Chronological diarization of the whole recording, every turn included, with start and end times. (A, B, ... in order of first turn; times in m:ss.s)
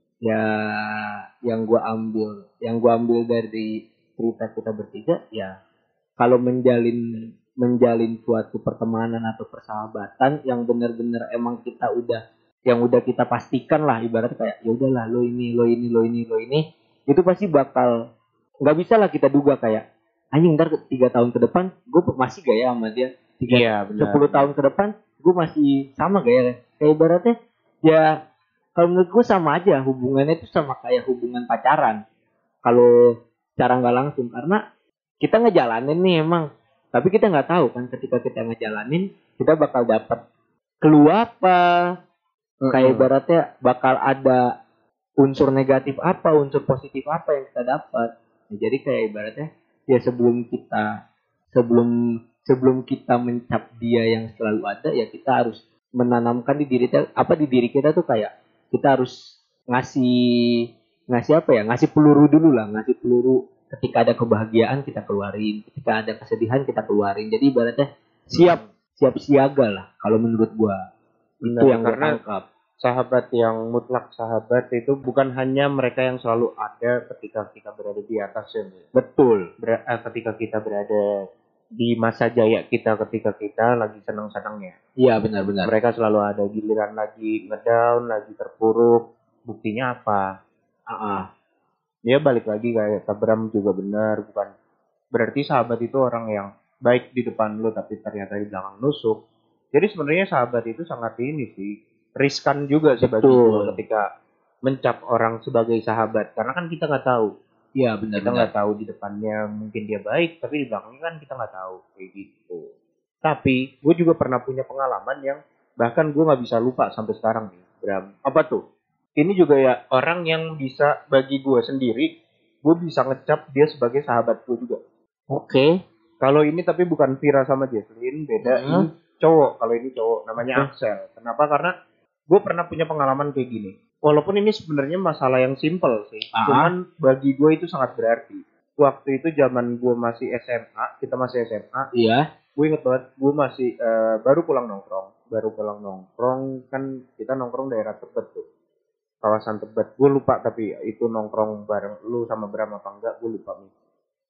0:00.2-0:05.6 A
0:06.2-0:07.0 A
0:07.6-0:17.9 A
0:18.6-0:19.8 A
0:20.3-0:27.3 A
0:23.5-0:24.5 B
0:28.8-0:32.0 A
0:33.6-0:34.6 A
0:35.2-0:40.2 A
0:40.8-0:41.7 A
0:42.6-0:43.1 B
0:42.7-0:44.4 A
0:45.2-0:50.9 A
0:51.5-0:51.9 A
0:52.4-0:59.2 A
0:59.7-1:00.1 A
1:01.1-1:10.8 A
1:08.3-1:08.6 B
1:11.4-1:12.4 A
1:11.4-1:12.2 B
1:12.8-1:18.8 B
1:19.0-1:19.4 A
1:19.6-1:21.2 B
1:21.8-1:24.7 B
1:25.0-1:25.7 A
1:25.6-1:30.2 B
1:30.9-1:31.2 A
1:32.1-1:34.5 B
1:35.1-1:39.2 B
1:39.7-1:44.0 B
1:43.0-1:43.8 A
1:44.6-1:47.3 B
1:47.8-1:48.5 A
1:48.2-1:52.7 B
1:53.2-1:58.6 B
1:59.2-2:02.1 B
2:02.6-2:04.8 B
2:05.3-2:05.7 A
2:06.2-2:11.7 B
2:08.4-2:08.9 A
2:12.3-2:21.9 B
2:16.3-2:16.7 A
2:21.9-2:22.2 A
2:22.6-2:28.4 B
2:29.2-2:33.7 B